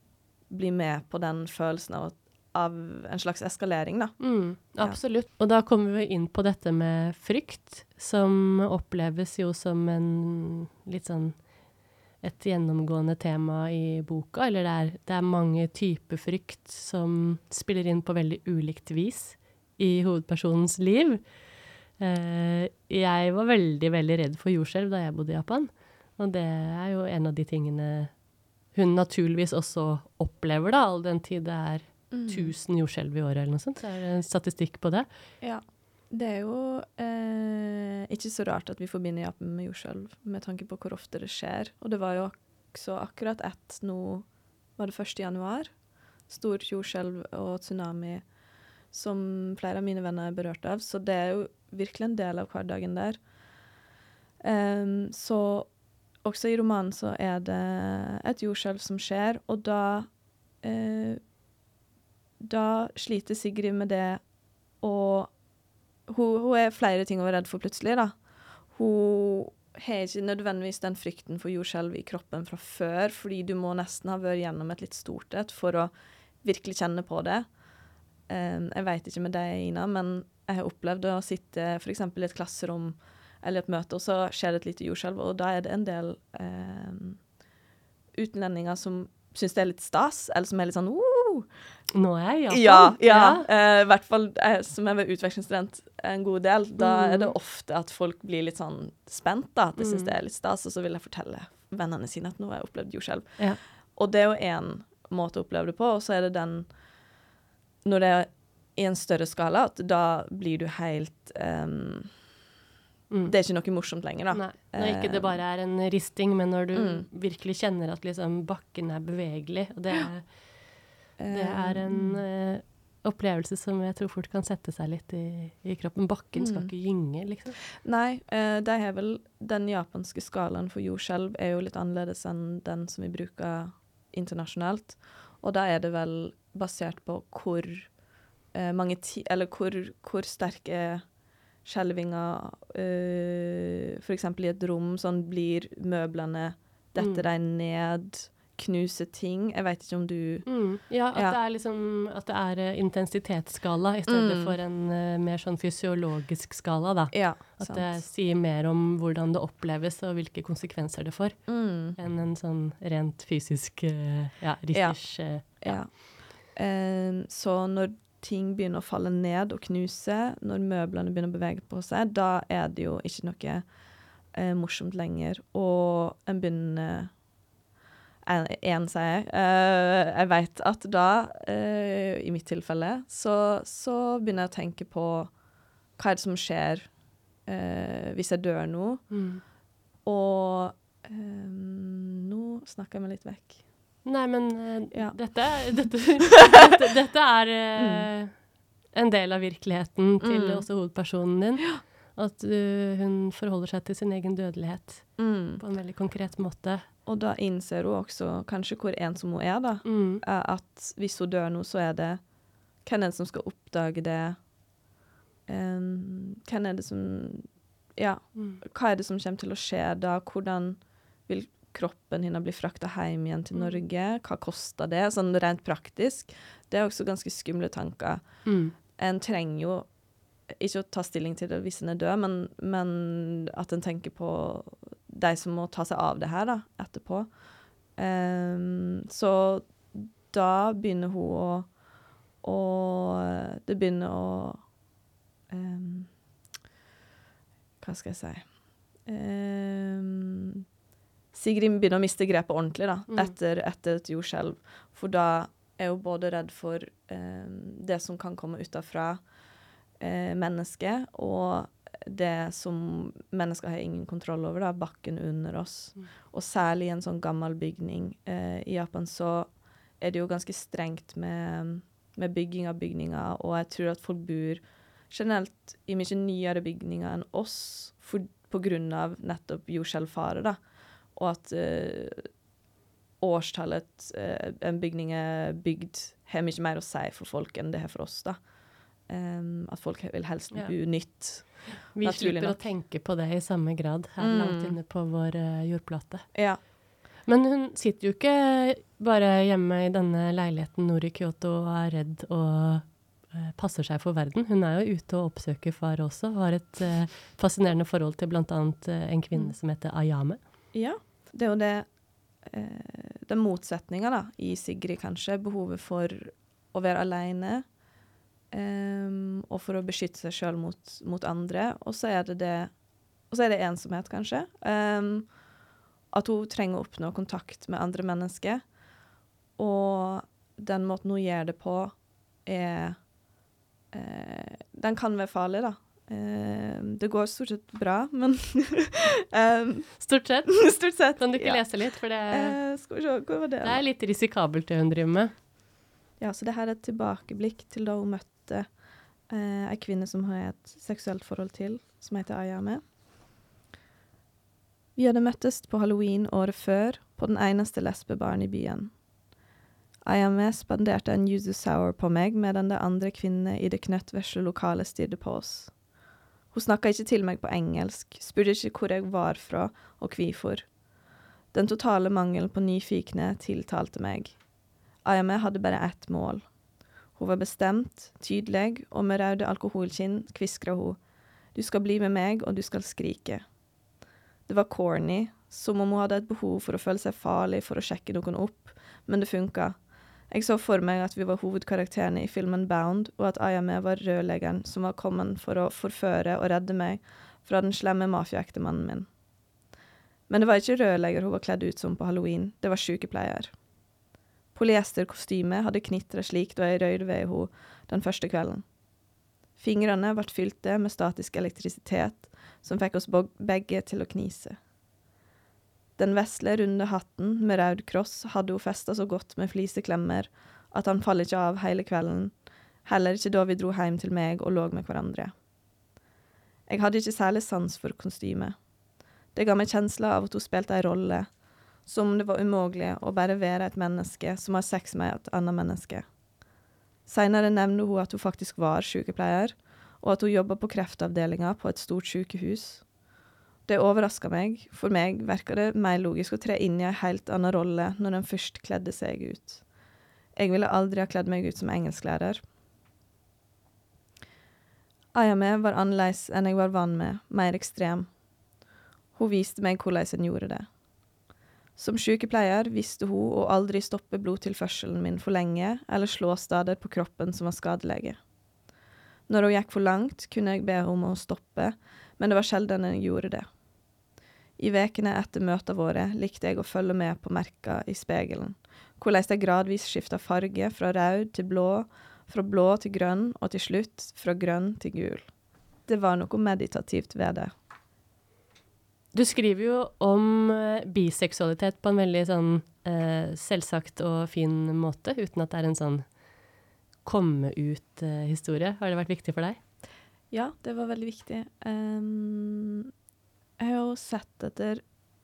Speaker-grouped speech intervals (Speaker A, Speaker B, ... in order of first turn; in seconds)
Speaker A: 0.5-5.0, 32.1-32.5, 35.4-48.3, 48.9-53.2, 54.4-61.2, 62.4-64.2, 64.8-65.4, 66.1-77.6, 78.3-87.2, 88.2-91.5, 92.5-106.8, 107.8-112.2, 113.3-115.4, 116.7-117.1, 121.2-122.2, 126.4-126.7, 127.8-138.0, 138.5-141.1, 141.6-151.4, 154.1-154.5, 157.1-158.1, 161.5-162.0, 164.7-173.7, 174.3-177.2, 178.2-185.4, 185.9-189.2, 190.0-193.6, 194.9-196.0, 197.8-198.1, 200.2-200.7, 205.2-205.6, 207.1-214.5, 215.5-229.9, 230.5-241.8, 242.4-244.7, 245.5-246.1, 247.8-250.6, 251.3-259.3, 260.0-282.3, 283.2-288.5, 289.0-292.6, 294.2-294.8, 296.3-296.6, 310.7-311.9, 312.4-317.7, 318.5-325.5, 326.1-328.8, 329.6-333.1, 333.9-343.9, 346.2-352.8, 355.0-359.0, 360.1-365.8, 366.5-370.7, 371.5-374.4, 375.0-376.5, 377.1-381.0, 381.5-383.5, 384.5-399.1, 400.3-403.6, 404.5-408.7, 409.6-414.6, 416.0-425.3, 426.7-428.6, 429.3-436.1, 437.1-442.9, 443.6-449.7, 450.4-452.4, 455.1-458.2, 459.1-460.7, 461.8-468.2, 469.3-473.5, 474.6-487.5, 500.3-502.9, 503.6-504.9
Speaker B: 4.2-35.3, 91.9-93.5, 96.8-97.3, 99.8-100.1, 113.1-113.4, 114.3-127.6, 147.0-147.2, 150.4-165.9, 189.1-189.4, 194.0-206.9, 209.8-210.2, 218.3-218.6, 223.5-223.8, 228.4-228.8, 253.1-253.3, 290.5-310.4, 340.0-342.7, 343.6-345.3, 489.1-496.2, 497.0-499.6